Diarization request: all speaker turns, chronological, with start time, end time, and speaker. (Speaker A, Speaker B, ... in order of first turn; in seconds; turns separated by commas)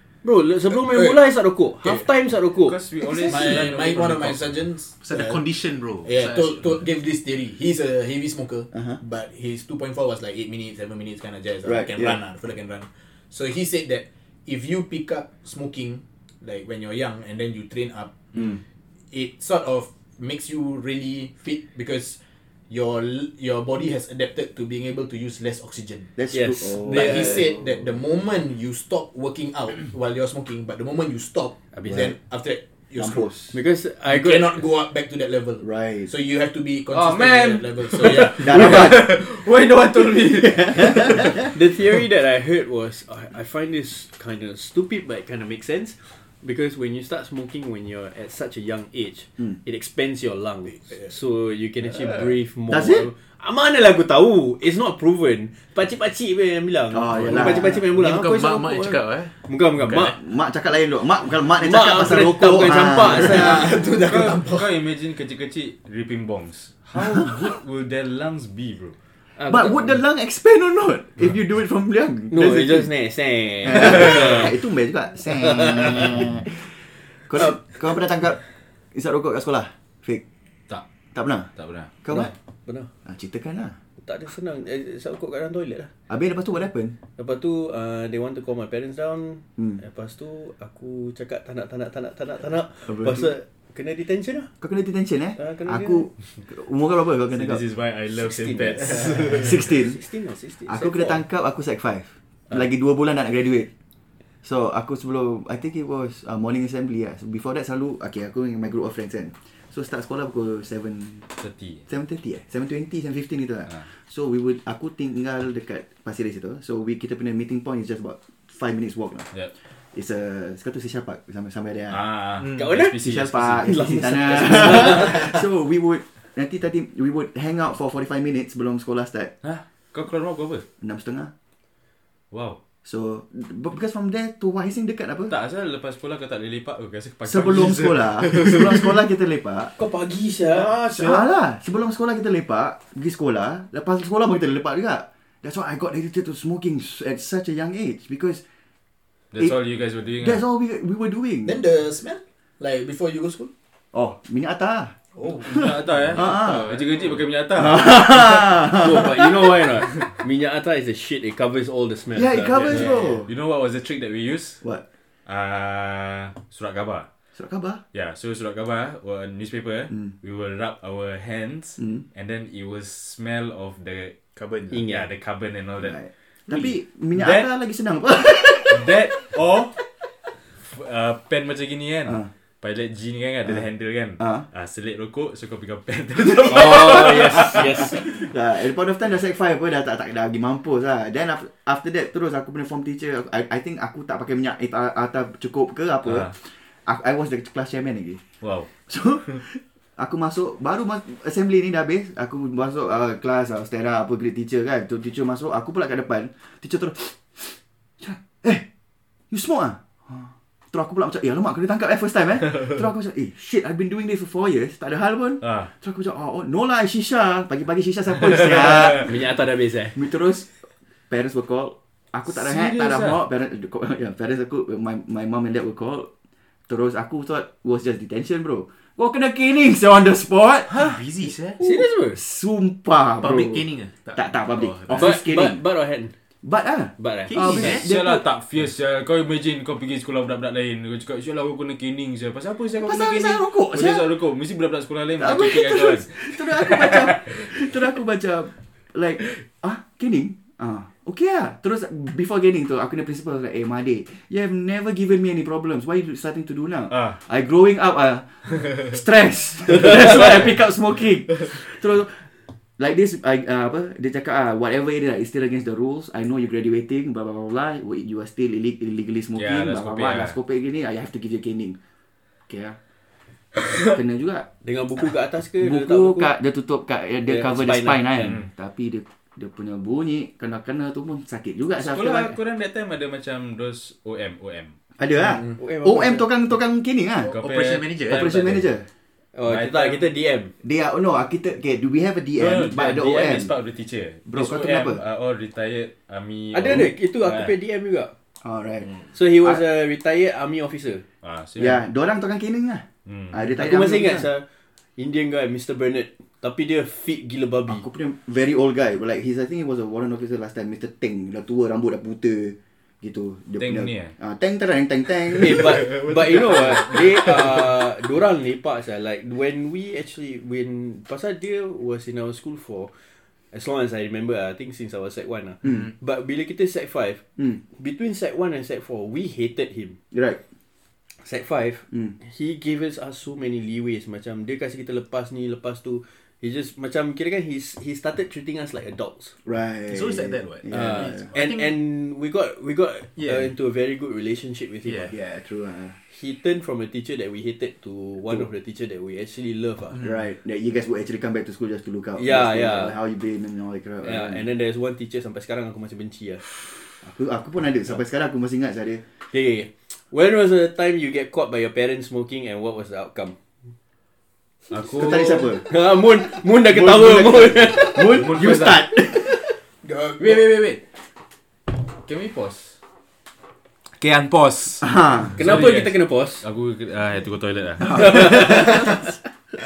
Speaker A: 0.2-2.8, Speaker B: 2.6-4.6, Speaker C: 3.0-3.5, Speaker D: 3.3-5.4, Speaker E: 5.0-6.8, Speaker D: 6.0-18.6, Speaker C: 11.6-12.2, Speaker D: 19.1-22.2, Speaker D: 22.7-26.1, Speaker C: 26.2-27.6, Speaker A: 26.3-27.5, Speaker D: 26.8-33.3, Speaker A: 31.7-32.1, Speaker C: 33.0-33.5, Speaker A: 33.5-34.6, Speaker D: 34.1-38.8, Speaker C: 35.6-36.1, Speaker B: 36.9-41.5, Speaker C: 38.4-39.1, Speaker C: 40.7-41.1, Speaker A: 41.4-60.2, Speaker C: 52.7-53.1, Speaker C: 56.9-57.9, Speaker E: 57.7-60.1, Speaker C: 60.0-63.6, Speaker A: 61.6-63.7, Speaker D: 63.1-64.7, Speaker B: 63.9-68.9, Speaker A: 69.4-69.9, Speaker C: 69.5-72.9, Speaker A: 72.3-74.5, Speaker C: 73.7-78.4, Speaker A: 75.5-76.2, Speaker C: 78.9-80.2, Speaker C: 81.1-81.5, Speaker B: 81.5-81.9, Speaker C: 82.0-82.3, Speaker A: 82.7-82.9, Speaker C: 83.0-83.8, Speaker A: 84.0-85.9, Speaker C: 86.1-87.0, Speaker A: 87.2-94.5, Speaker C: 92.8-93.3, Speaker C: 94.6-97.6, Speaker A: 95.3-96.1, Speaker B: 97.3-99.5, Speaker A: 98.2-101.2, Speaker C: 99.2-100.0, Speaker C: 100.7-103.7, Speaker C: 104.4-111.3, Speaker B: 111.4-111.8, Speaker C: 111.9-119.3, Speaker C: 119.9-122.0, Speaker B: 121.9-123.9, Speaker A: 122.5-123.1, Speaker C: 123.0-129.3, Speaker A: 123.6-125.3, Speaker B: 129.4-130.6, Speaker C: 130.8-131.3, Speaker B: 132.3-132.6, Speaker C: 132.8-135.3, Speaker B: 135.3-138.9, Speaker C: 137.2-139.7, Speaker A: 139.8-141.2, Speaker C: 140.9-148.4, Speaker B: 149.3-150.4, Speaker C: 150.2-151.6, Speaker D: 151.4-153.5, Speaker C: 153.9-154.9, Speaker D: 155.1-155.6, Speaker B: 155.4-158.4, Speaker C: 155.4-156.7, Speaker C: 157.6-159.5, Speaker A: 158.7-162.9, Speaker C: 162.1-163.3, Speaker B: 162.5-164.6, Speaker B: 165.2-167.1, Speaker C: 167.3-167.8, Speaker B: 167.9-174.2, Speaker E: 174.3-174.8, Speaker A: 174.7-175.1, Speaker B: 174.8-175.9, Speaker C: 175.8-179.1, Speaker B: 177.1-177.5, Speaker B: 178.7-179.8, Speaker B: 180.6-187.9, Speaker C: 184.2-184.4, Speaker C: 186.2-198.2, Speaker A: 186.5-188.0, Speaker B: 196.0-196.3, Speaker B: 198.4-198.7, Speaker C: 198.9-208.6, Speaker C: 209.3-219.1, Speaker B: 215.4-215.7, Speaker A: 218.9-220.0, Speaker C: 219.9-226.1, Speaker B: 222.3-223.2, Speaker C: 226.7-231.0, Speaker E: 230.7-231.6, Speaker A: 231.6-232.2, Speaker C: 231.6-235.6, Speaker E: 233.2-235.2, Speaker A: 234.9-236.1, Speaker C: 236.4-238.2, Speaker A: 237.0-237.8, Speaker E: 237.3-237.9, Speaker B: 237.5-247.6, Speaker C: 242.8-244.1, Speaker C: 245.2-271.8, Speaker B: 256.9-257.2, Speaker A: 259.8-260.2, Speaker B: 260.1-260.4, Speaker B: 269.4-270.3, Speaker C: 272.5-272.8, Speaker C: 273.8-274.5, Speaker A: 274.6-276.3, Speaker C: 275.6-282.4, Speaker A: 277.2-278.3, Speaker B: 278.1-278.5, Speaker B: 281.8-284.7, Speaker C: 285.0-287.3, Speaker A: 285.5-286.3, Speaker B: 287.2-288.6, Speaker E: 287.3-288.4, Speaker C: 288.1-288.9, Speaker A: 289.3-290.5, Speaker B: 289.4-290.1, Speaker C: 290.6-293.5, Speaker B: 292.4-297.5, Speaker C: 294.3-295.0, Speaker A: 296.5-298.1, Speaker C: 298.4-299.6, Speaker A: 299.1-301.0, Speaker B: 301.2-301.8, Speaker C: 301.6-304.3, Speaker B: 303.1-303.3, Speaker A: 303.5-304.4, Speaker A: 305.0-307.8, Speaker C: 307.7-316.0, Speaker B: 313.6-314.1, Speaker A: 315.3-322.9, Speaker A: 323.5-330.0, Speaker C: 330.1-330.4, Speaker A: 331.2-339.3, Speaker C: 339.4-341.3, Speaker E: 339.9-341.8, Speaker A: 340.7-345.1, Speaker E: 343.1-343.5, Speaker E: 344.8-345.1, Speaker C: 345.1-346.0, Speaker A: 346.1-350.0, Speaker C: 350.0-354.4, Speaker A: 352.2-352.9, Speaker A: 354.0-356.4, Speaker C: 357.0-359.0, Speaker A: 359.3-363.4, Speaker B: 364.7-365.5, Speaker C: 364.9-365.7, Speaker A: 365.6-368.2, Speaker C: 366.6-369.5, Speaker B: 368.1-368.9, Speaker D: 369.8-370.4, Speaker B: 370.2-370.8, Speaker B: 371.9-372.8, Speaker B: 374.0-378.8, Speaker C: 374.8-375.4, Speaker A: 375.4-376.4, Speaker C: 377.9-378.9, Speaker A: 377.9-379.1